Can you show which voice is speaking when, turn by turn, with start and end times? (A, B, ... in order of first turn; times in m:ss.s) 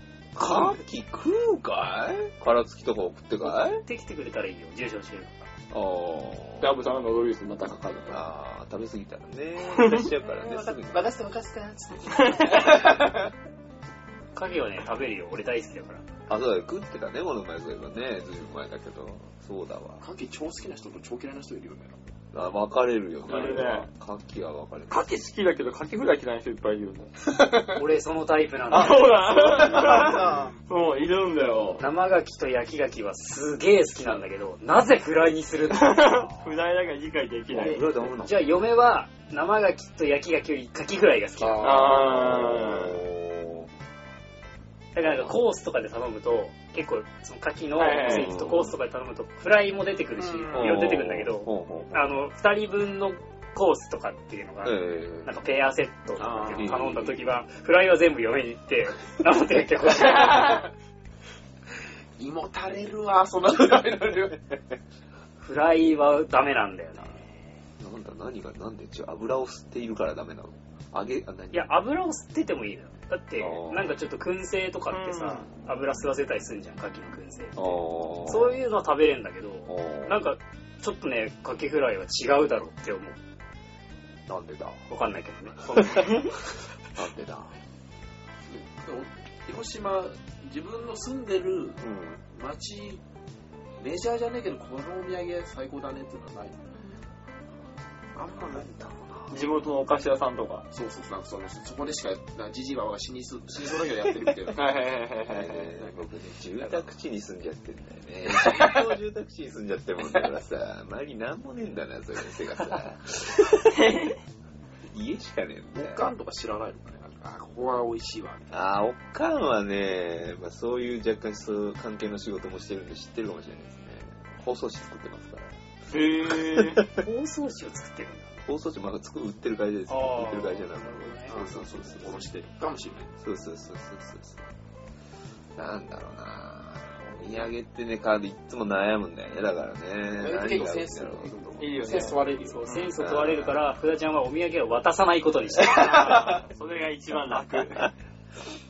0:00.4-0:03.8 A
0:00.4-0:00.8 B
0:03.4-0:05.5 C
0:05.7-0:06.8 A
0:06.6-0:08.2 B
0:08.1-0:11.1 A
0:09.7-0:10.1 B
0:10.9-0:13.2 D
0:12.1-0:12.8 B
0:14.4-0:16.0 C
0:16.3-0:20.0 A
0:20.0-0:22.0 D
0:22.3-0:25.1 A
0:23.3-0:23.9 B
0:24.9-0:27.1 B
0:27.4-0:27.8 D
0:27.8-0:29.8 C
0:28.7-0:31.8 B
0:29.5-0:30.6 D
0:31.8-0:36.4 C
0:35.7-0:37.8 B
0:37.5-0:38.7 A
0:38.1-0:42.0 C
0:41.4-0:42.2 D
0:41.6-0:43.0 B
0:41.7-0:43.7 A
0:44.9-1:00.6 C
0:45.0-0:45.4 A
0:47.8-0:48.3 B
0:48.0-0:48.8 A
0:50.2-0:50.8 D
0:50.5-0:52.2 A
0:54.6-0:55.4 A
0:56.2-0:56.9 D
0:56.5-0:57.3 A
1:02.2-1:04.4 D
1:05.4-1:07.2 C
1:07.8-1:11.7 A
1:11.5-1:23.2 C
1:13.4-1:13.9 A
1:14.9-1:15.5 B
1:17.6-1:18.6 A
1:19.7-1:20.3 A
1:24.3-1:24.8 A
1:24.9-1:26.3 C
1:25.8-1:26.2 A
1:27.0-1:27.5 A
1:28.5-1:31.8 D
1:31.8-1:32.2 A
1:32.3-1:33.0 D
1:33.8-1:36.6 D
1:38.2-1:39.1 D
1:38.4-1:39.3 A
1:39.3-1:40.7 B
1:40.7-1:44.6 D
1:44.5-1:45.6 B
1:45.3-1:54.0 A
1:45.6-1:46.9 D
1:48.3-1:48.9 D
1:53.7-1:54.2 B
1:54.9-1:56.1 A
1:55.8-1:58.6 D
1:58.5-2:06.9 A
2:05.9-2:06.8 B
2:06.9-2:08.3 C
2:08.5-2:12.2 A
2:09.9-2:11.4 C
2:11.3-2:13.1 D
2:13.2-2:14.5 A
2:15.6-2:21.3 A
2:20.2-2:22.7 D
2:21.6-2:22.9 B
2:22.5-2:26.4 C
2:23.0-2:23.6 A
2:25.8-2:27.9 B
2:27.4-2:27.9 A